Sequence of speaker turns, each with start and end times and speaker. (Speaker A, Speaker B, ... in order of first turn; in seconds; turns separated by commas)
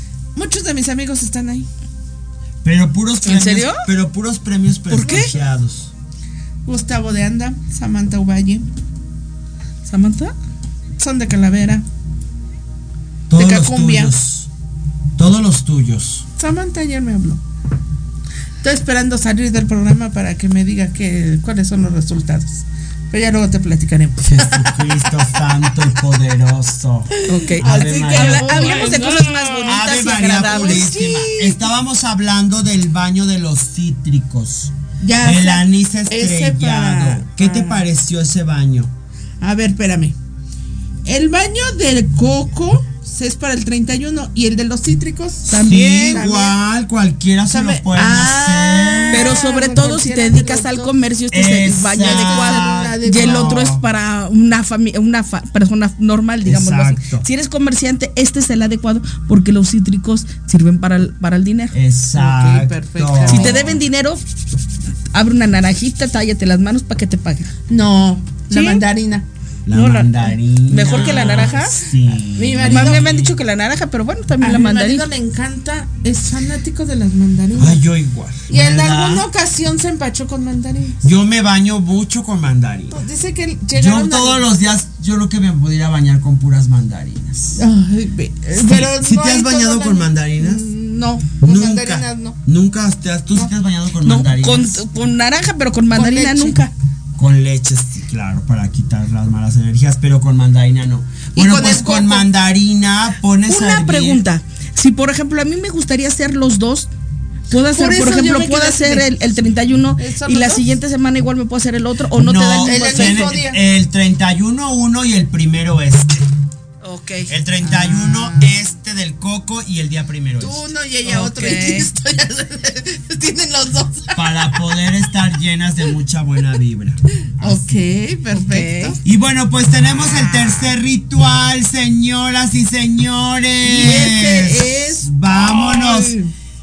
Speaker A: 0.3-1.7, Speaker B: 2.6-5.9, Speaker C: 3.2-3.9, Speaker C: 4.9-5.3, Speaker A: 5.0-5.3, Speaker A: 6.7-8.7, Speaker C: 9.9-10.3, Speaker A: 11.0-11.8, Speaker B: 13.3-14.5, Speaker A: 13.3-14.1, Speaker B: 15.2-16.2, Speaker A: 16.4-17.4, Speaker A: 18.6-25.0, Speaker B: 24.2-29.0, Speaker C: 27.3-30.9, Speaker A: 27.3-31.6, Speaker B: 29.6-38.9, Speaker A: 35.0-37.8, Speaker A: 39.4-40.1, Speaker A: 41.0-46.5, Speaker C: 45.5-46.2, Speaker B: 45.6-49.3, Speaker A: 47.5-50.9, Speaker C: 49.1-61.7, Speaker B: 51.3-53.8, Speaker A: 52.0-53.6, Speaker B: 56.4-57.2, Speaker B: 61.7-63.8, Speaker A: 62.2-63.6, Speaker C: 63.3-64.2, Speaker C: 65.1-67.5, Speaker A: 67.7-71.8, Speaker C: 68.5-68.8, Speaker B: 69.7-73.3, Speaker C: 70.7-71.7, Speaker A: 72.3-73.2, Speaker C: 72.6-75.1, Speaker A: 74.4-77.8, Speaker B: 77.5-79.3, Speaker A: 78.5-81.0, Speaker B: 81.0-83.0, Speaker A: 82.9-84.5, Speaker B: 83.7-87.6, Speaker A: 87.5-92.3, Speaker B: 88.5-90.6, Speaker B: 91.4-94.8, Speaker C: 94.0-96.7, Speaker A: 95.9-96.6, Speaker B: 97.2-104.2, Speaker A: 101.3-102.3, Speaker C: 103.5-106.9, Speaker C: 107.5-113.3, Speaker A: 107.7-109.1, Speaker A: 110.0-110.6, Speaker B: 112.2-116.2, Speaker A: 112.6-113.6, Speaker C: 116.8-117.3, Speaker B: 117.3-120.6, Speaker A: 117.6-118.4, Speaker A: 120.4-124.3, Speaker C: 121.0-121.9, Speaker B: 124.1-127.7, Speaker A: 127.4-129.0, Speaker C: 128.3-128.9, Speaker B: 129.0-136.1, Speaker A: 130.0-130.7, Speaker A: 133.7-136.3, Speaker C: 133.8-134.7